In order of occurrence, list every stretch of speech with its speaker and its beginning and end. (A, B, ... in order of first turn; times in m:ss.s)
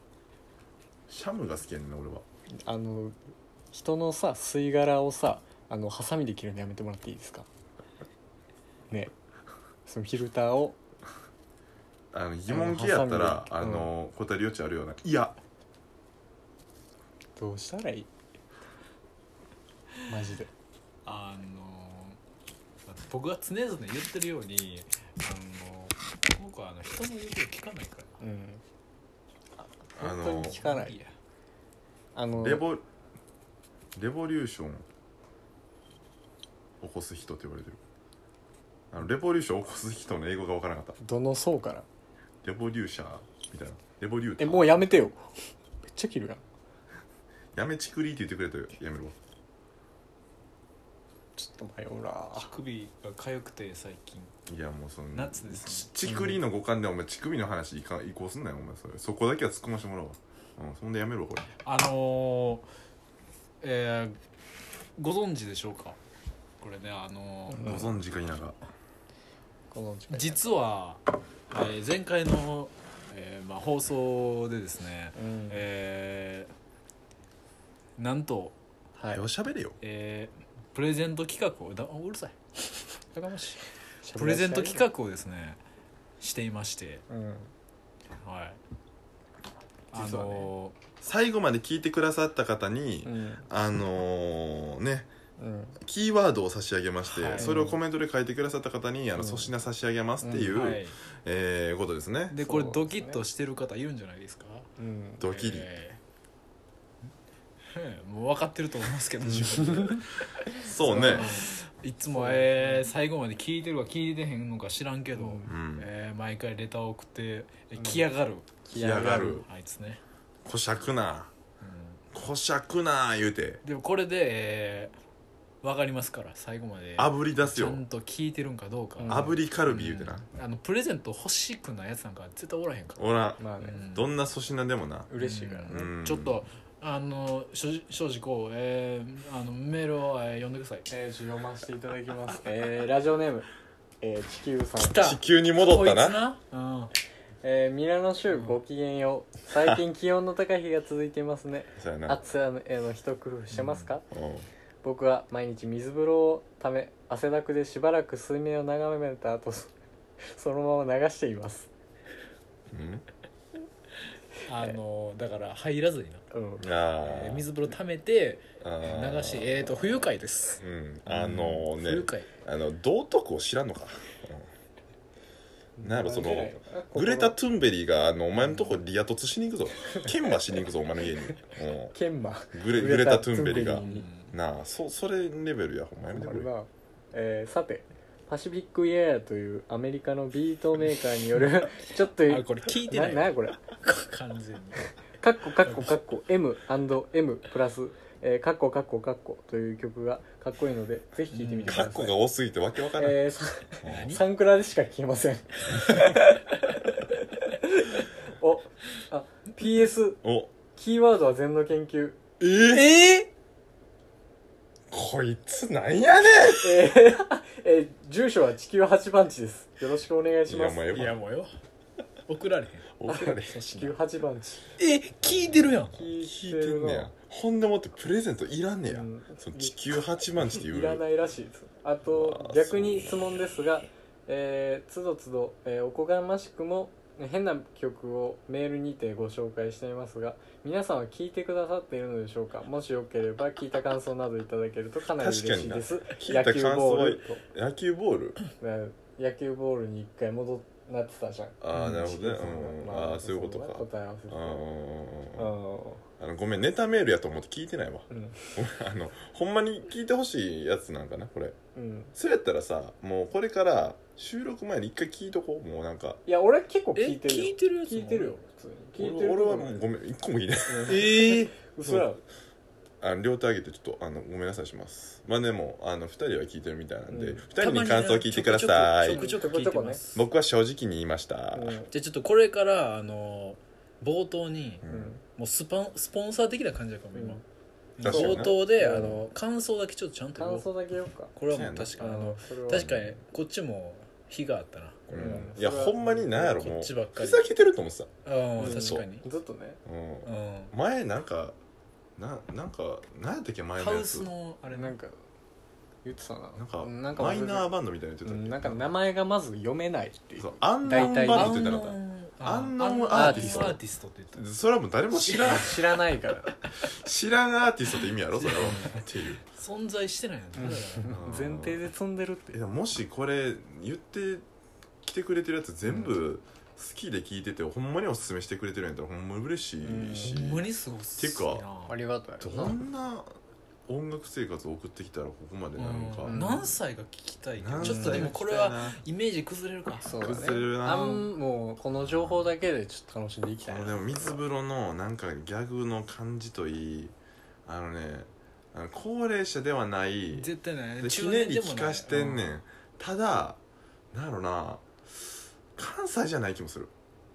0:01.1-0:02.2 A
0:02.6-0:03.2 B
0:03.7-0:07.5 B
0:09.9-0:10.8 B
0:12.1-0:15.4 A
0:12.5-0:13.9 B
0:17.4-0:18.1 B
0:20.1-0:20.5 B
0:21.0-0:22.2 C
0:22.9-0:28.2 C
0:28.2-0:28.6 B
0:29.9-0:31.0 B
0:30.0-0:30.6 A
0:30.3-0:31.1 C
0:32.2-0:32.6 B
0:32.4-0:32.8 A
0:34.0-0:34.8 A
0:36.8-0:37.8 A
0:38.9-0:41.0 A
0:41.0-0:41.9 B
0:42.4-0:45.0 A
0:44.4-0:45.3 B
0:45.8-0:46.4 B
0:47.5-0:49.2 A
0:51.4-0:52.5 B
0:52.3-0:54.3 C
0:54.5-1:01.5 A
0:55.1-0:55.9 C
0:56.0-0:56.4 B
1:01.6-1:02.7 C
1:03.6-1:04.2 C
1:05.0-1:06.0 C
1:06.6-1:07.8 C
1:07.5-1:07.9 B
1:07.6-1:08.6 A
1:09.7-1:10.4 B
1:10.1-1:16.5 C
1:15.2-1:15.6 B
1:18.0-1:18.6 C
1:19.0-1:19.2 B
1:19.1-1:19.8 A
1:19.8-1:22.4 C
1:23.2-1:24.9 B
1:23.2-1:23.6 C
1:24.2-1:25.6 C
1:26.2-1:27.0 C
1:27.1-1:27.5 B
1:28.2-1:28.6 C
1:29.9-1:30.8 C
1:30.0-1:30.4 A
1:30.1-1:30.4 B
1:31.0-1:35.1 A
1:33.0-1:33.4 B
1:35.4-1:35.8 B
1:35.8-1:42.4 A
1:37.1-1:37.6 C
1:37.4-1:37.8 B
1:39.2-1:39.5 B
1:40.2-1:40.6 B
1:40.5-1:41.0 C
1:42.3-1:44.7 C
1:42.4-1:43.2 B
1:44.8-1:45.2 B
1:45.2-1:45.7 A
1:45.2-1:46.0 C
1:47.7-1:58.6 C
1:49.4-1:50.0 B
1:50.6-1:51.4 A
1:50.8-1:51.5 B
1:52.1-1:52.9 B
1:55.2-1:55.5 B
1:55.5-1:55.9 A
1:57.8-1:58.1 B
1:58.6-1:59.4 B
1:58.8-1:59.5 A
1:59.1-2:00.0 C
2:00.4-2:01.3 A
2:01.6-2:02.0 C
2:02.1-2:03.6 A
2:03.6-2:04.9 C
2:05.6-2:14.1 C
2:07.0-2:07.8 A
2:09.0-2:09.4 B
2:09.1-2:10.2 A
2:13.0-2:15.1 A
2:13.4-2:13.8 B
2:15.1-2:15.9 B
2:15.2-2:20.9 C
2:15.7-2:16.4 A
2:20.9-2:23.5 B
2:24.0-2:25.1 B
2:24.8-2:26.9 C
2:25.0-2:26.2 A
2:27.4-2:34.0 B
2:28.3-2:28.6 C
2:31.8-2:32.2 A
2:33.5-2:33.9 C
2:34.1-2:34.5 A
2:34.8-2:41.7 B
2:42.7-2:43.0 A
2:44.4-2:46.2 C
2:46.3-2:46.7 B
2:46.6-2:47.5 A
2:47.0-2:52.3 C
2:48.6-2:50.1 A
2:50.6-2:54.5 A
2:55.8-2:57.4 B
2:55.8-3:01.9 A
2:58.4-2:58.8 B
3:01.9-3:04.1 B
3:02.5-3:06.5 A
3:03.7-3:04.3 C
3:06.1-3:13.6 B
3:12.0-3:14.9 C
3:15.2-3:22.2 B
3:15.6-3:15.9 C
3:21.3-3:21.9 C
3:21.7-3:23.2 A
3:23.0-3:30.2 B
3:23.8-3:24.2 A
3:23.8-3:24.2 C
3:30.2-3:30.5 A
3:30.8-3:32.2 B
3:32.4-3:33.0 A
3:32.7-3:33.1 C
3:34.9-3:36.9 A
3:36.5-3:40.9 B
3:40.5-3:41.2 A
3:40.9-3:41.5 C
3:42.3-3:44.0 C
3:43.0-3:43.6 A
3:43.1-3:44.7 B
3:44.8-3:46.0 C
3:45.9-3:47.1 B
3:46.1-3:51.0 A
3:48.9-3:49.8 B
3:50.4-4:07.4 B
3:52.1-3:53.4 A
4:05.2-4:08.4 A
4:08.6-4:14.7 B
4:11.6-4:15.5 A
4:15.4-4:16.0 B
4:16.2-4:21.6 A
4:18.1-4:18.6 B
4:21.8-4:22.2 B
4:22.2-4:26.2 A
4:26.3-4:29.8 B
4:27.0-4:28.4 C
4:29.0-4:31.2 A
4:30.7-4:32.2 B
4:30.9-4:31.5 C
4:31.8-4:32.1 A
4:33.0-4:39.3 A
4:37.1-4:37.5 B
4:37.6-4:40.3 C
4:39.1-4:40.0 B
4:40.1-4:41.8 A
4:41.5-4:41.9 B
4:41.9-4:47.4 C
4:44.8-4:45.2 A
4:44.9-4:45.2 B
4:47.1-4:47.4 B
4:48.0-4:50.7 C
4:48.0-4:49.2 A
4:48.0-4:49.2 B
4:50.4-4:51.3 B
4:51.3-4:55.5 C
4:51.5-4:52.0 A
4:52.0-4:53.0 B
4:52.7-4:53.2 A
4:55.1-4:58.1 A
4:55.1-4:56.6 B
4:56.3-4:57.5 C
4:58.2-4:59.3 C
4:58.6-4:59.8 B
4:58.6-4:59.0 A
4:59.9-5:01.6 A
5:00.2-5:00.7 C
5:02.2-5:04.3 A
5:03.8-5:05.0 C
5:04.7-5:05.2 B
5:06.0-5:07.7 B
5:06.6-5:08.9 A
5:08.2-5:11.7 B
5:10.4-5:13.8 A
5:10.9-5:14.5 C
5:13.1-5:13.8 B
5:14.3-5:15.8 A
5:15.3-5:15.8 C
5:15.3-5:16.5 B
5:16.8-5:19.4 A
5:18.4-5:19.0 C
5:18.6-5:18.9 B
5:19.5-5:21.2 C
5:20.6-5:22.6 B
5:21.1-5:21.8 A
5:22.5-5:24.4 A
5:25.0-5:31.7 A
5:25.9-5:26.1 B
5:29.8-5:30.4 B
5:30.2-5:32.0 C
5:31.9-5:32.8 B
5:32.4-5:33.3 A
5:33.9-5:36.4 A
5:35.8-5:40.4 C
5:36.3-5:36.7 B
5:37.6-5:39.0 A
5:37.8-5:38.3 B
5:40.0-5:44.4 B
5:40.2-5:41.3 A
5:42.0-5:42.5 A
5:43.7-5:47.1 A
5:47.7-5:53.6 A
5:50.3-5:52.5 C
5:54.1-5:56.9 A